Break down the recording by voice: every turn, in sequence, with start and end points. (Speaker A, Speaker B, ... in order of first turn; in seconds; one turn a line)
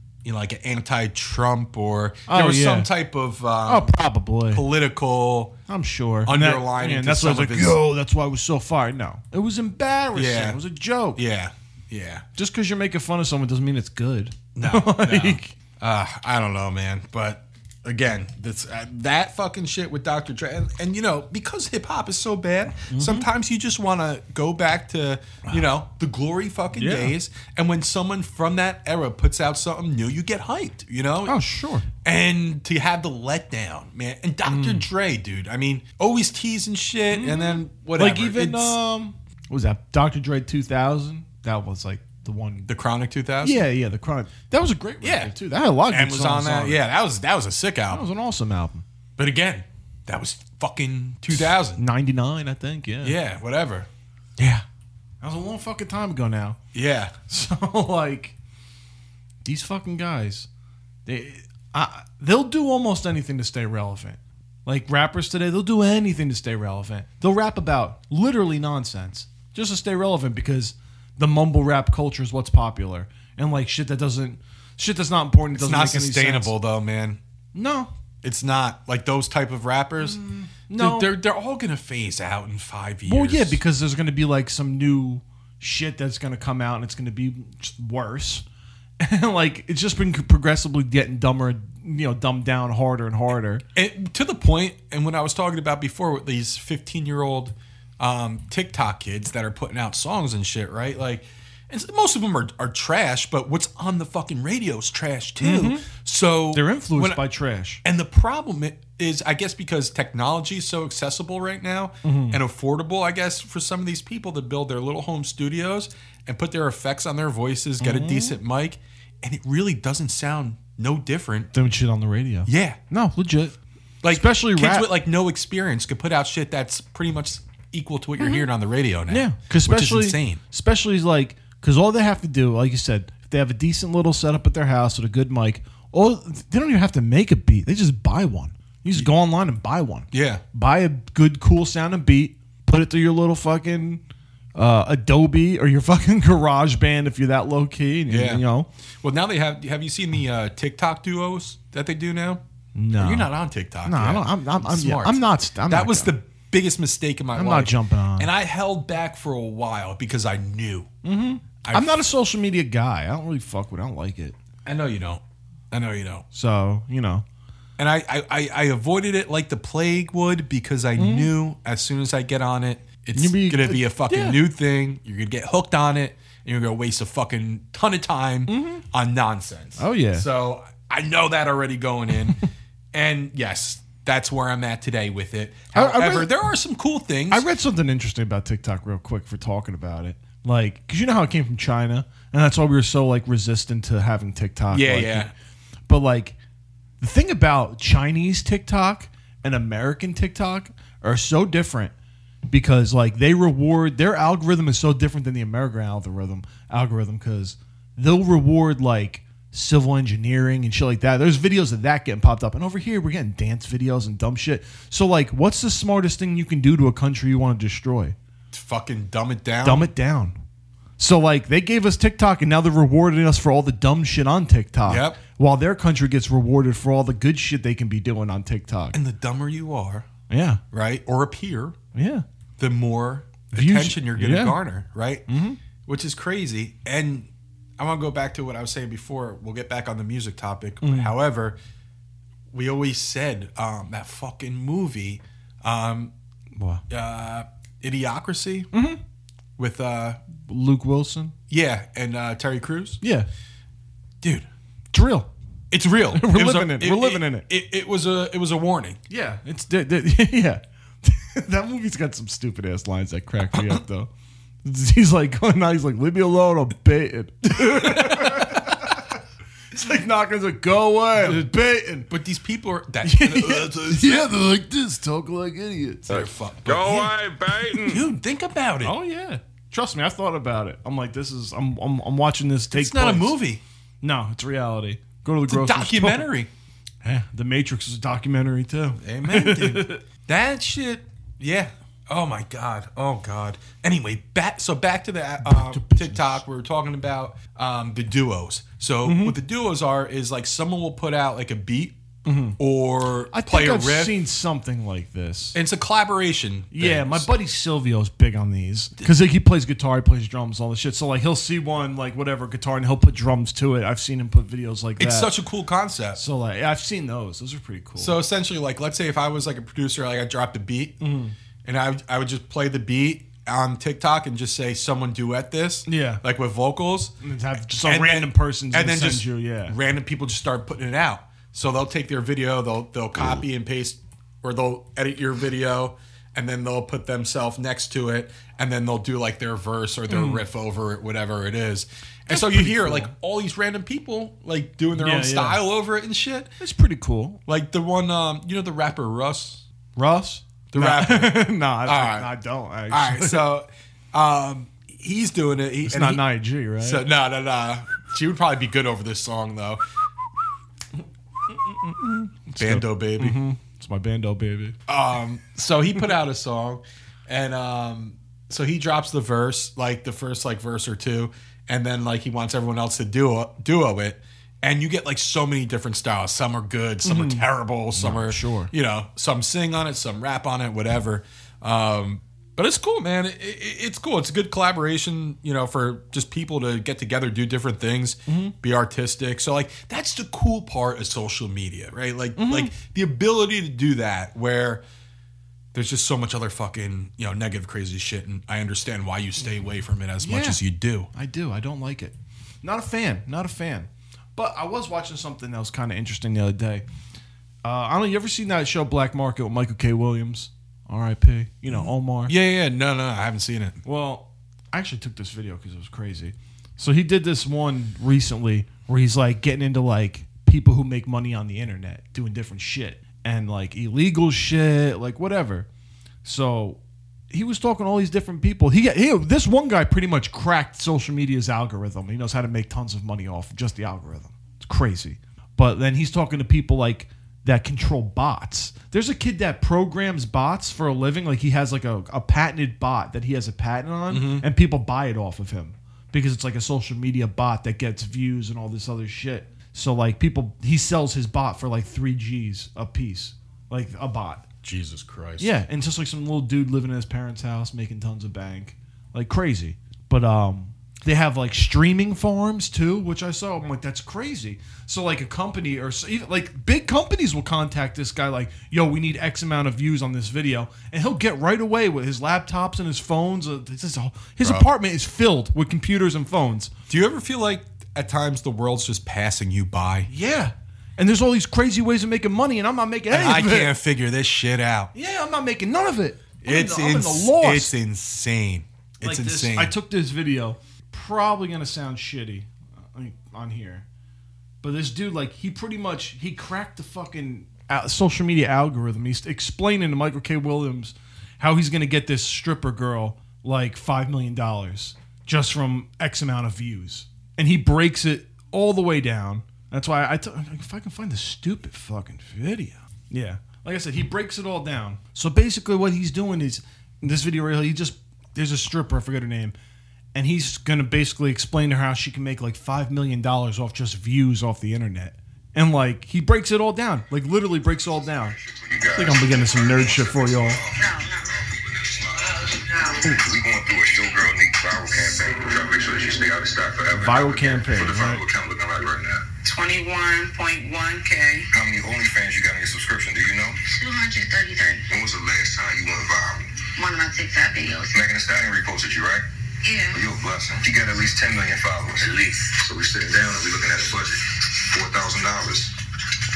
Speaker A: 0.2-4.0
Speaker B: 2.3-2.9
Speaker B: 3.6-4.6
Speaker A: 4.5-5.5
Speaker B: 5.7-11.2
Speaker A: 6.2-7.8
Speaker A: 10.1-10.6
Speaker A: 11.1-12.2
Speaker B: 12.4-15.5
Speaker A: 14.5-31.4
Speaker B: 22.9-23.3
Speaker B: 26.7-27.1
Speaker B: 31.2-31.9
Speaker A: 32.0-38.8
Speaker B: 34.5-34.9
Speaker B: 37.1-42.7
Speaker A: 42.7-43.6
Speaker B: 43.4-46.9
Speaker A: 45.0-45.3
Speaker A: 45.9-48.1
Speaker B: 47.9-48.8
Speaker A: 49.2-51.8
Speaker B: 51.3-53.2
Speaker A: 53.0-53.9
Speaker B: 54.4-54.6
Speaker B: 55.2-56.6
Speaker A: 56.7-57.1
Speaker B: 57.3-58.3
Speaker B: 59.4-60.5
Speaker B: 61.0-76.5
Speaker A: 75.5-77.2
Speaker B: 77.5-77.9
Speaker A: 78.2-80.2
Speaker B: 80.0-81.1
Speaker A: 80.7-83.6
Speaker B: 83.0-88.4
Speaker B: 89.0-93.6
Speaker A: 93.7-107.2
Speaker B: 105.4-105.9
Speaker B: 106.5-107.8
Speaker A: 107.8-121.5
Speaker B: 112.0-112.4
Speaker B: 117.8-118.4
Speaker B: 121.5-123.5
Speaker A: 122.5-122.8
Speaker A: 124.0-130.4
Speaker B: 124.1-124.9
Speaker B: 128.2-128.4
Speaker B: 129.1-144.0
Speaker A: 140.1-140.4
Speaker B: 144.5-148.7
Speaker A: 148.1-148.4
Speaker A: 149.0-152.4
Speaker B: 152.7-156.1
Speaker A: 153.0-160.9
Speaker B: 157.3-158.3
Speaker B: 161.0-164.3
Speaker A: 161.6-162.0
Speaker A: 164.6-166.2
Speaker B: 166.3-167.2
Speaker A: 167.8-182.4
Speaker B: 171.0-171.3
Speaker B: 173.1-174.4
Speaker B: 178.5-178.8
Speaker B: 179.8-180.2
Speaker A: 182.9-187.5
Speaker B: 185.7-186.3
Speaker B: 187.3-195.3
Speaker A: 194.7-195.3
Speaker B: 195.9-196.3
Speaker B: 197.0-201.9
Speaker B: 202.5-218.2
Speaker A: 218.5-219.9
Speaker B: 219.6-220.3
Speaker B: 221.0-229.0
Speaker A: 224.8-225.2
Speaker A: 228.9-230.1
Speaker B: 230.3-230.6
Speaker A: 230.7-231.8
Speaker B: 231.9-232.2
Speaker A: 232.6-235.2
Speaker B: 233.5-234.6
Speaker B: 235.3-235.6
Speaker A: 235.8-241.6
Speaker B: 240.8-241.1
Speaker A: 242.5-246.1
Speaker B: 246.6-246.8
Speaker A: 246.9-248.7
Speaker B: 248.7-249.0
Speaker A: 249.6-250.2
Speaker B: 250.4-251.3
Speaker A: 251.5-253.0
Speaker B: 253.0-253.3
Speaker A: 254.2-254.5
Speaker B: 254.9-255.3
Speaker A: 255.7-259.0
Speaker B: 256.1-257.5
Speaker B: 259.1-264.1
Speaker B: 264.6-269.1
Speaker A: 267.5-268.9
Speaker B: 269.7-272.1
Speaker A: 271.1-274.3
Speaker B: 273.0-276.3
Speaker A: 276.1-278.9
Speaker B: 277.6-277.9
Speaker B: 278.8-283.4
Speaker A: 282.7-283.6
Speaker B: 284.0-286.3
Speaker A: 285.5-286.5
Speaker B: 287.0-290.0
Speaker A: 289.0-302.0
Speaker B: 295.4-296.4
Speaker B: 299.0-299.4
Speaker B: 302.2-302.6
Speaker A: 302.6-304.2
Speaker B: 303.3-305.6
Speaker A: 305.5-307.3
Speaker B: 306.7-315.3
Speaker A: 315.0-316.2
Speaker B: 316.1-318.2
Speaker A: 317.9-321.0
Speaker B: 321.0-321.3
Speaker A: 321.6-327.1
Speaker B: 325.9-326.2
Speaker B: 327.2-329.8
Speaker A: 327.7-346.5
Speaker B: 340.1-340.4
Speaker B: 342.3-343.1
Speaker B: 344.9-345.6
Speaker B: 346.6-347.4
Speaker A: 347.5-349.6
Speaker B: 349.9-353.4
Speaker A: 350.7-352.3
Speaker A: 352.9-356.3
Speaker B: 355.9-357.0
Speaker A: 356.8-359.8
Speaker B: 361.9-364.7
Speaker A: 362.6-363.4
Speaker A: 364.9-394.8
Speaker B: 377.0-378.7
Speaker B: 388.3-388.5
Speaker B: 392.4-392.7
Speaker A: 395.7-401.1
Speaker B: 400.2-406.8
Speaker B: 407.6-412.3
Speaker A: 411.7-413.8
Speaker B: 413.8-425.7
Speaker B: 426.2-426.8
Speaker B: 427.3-454.4
Speaker A: 444.1-444.4
Speaker A: 454.6-455.6
Speaker B: 455.4-476.7
Speaker A: 474.4-474.7
Speaker A: 476.9-480.1
Speaker B: 480.1-483.7
Speaker A: 483.1-484.9
Speaker B: 484.9-487.7
Speaker A: 486.4-489.7
Speaker B: 489.0-493.8
Speaker B: 494.6-519.5
Speaker B: 520.1-528.4
Speaker C: 528.4-539.2
Speaker B: 528.9-530.6
Speaker D: 530.8-531.1
Speaker D: 532.7-533.0
Speaker B: 536.9-538.2
Speaker D: 539.4-541.5
Speaker C: 541.5-543.6
Speaker D: 543.7-544.8
Speaker C: 544.9-546.5
Speaker D: 546.8-548.0
Speaker C: 547.9-549.2
Speaker D: 549.6-550.0
Speaker C: 549.9-555.8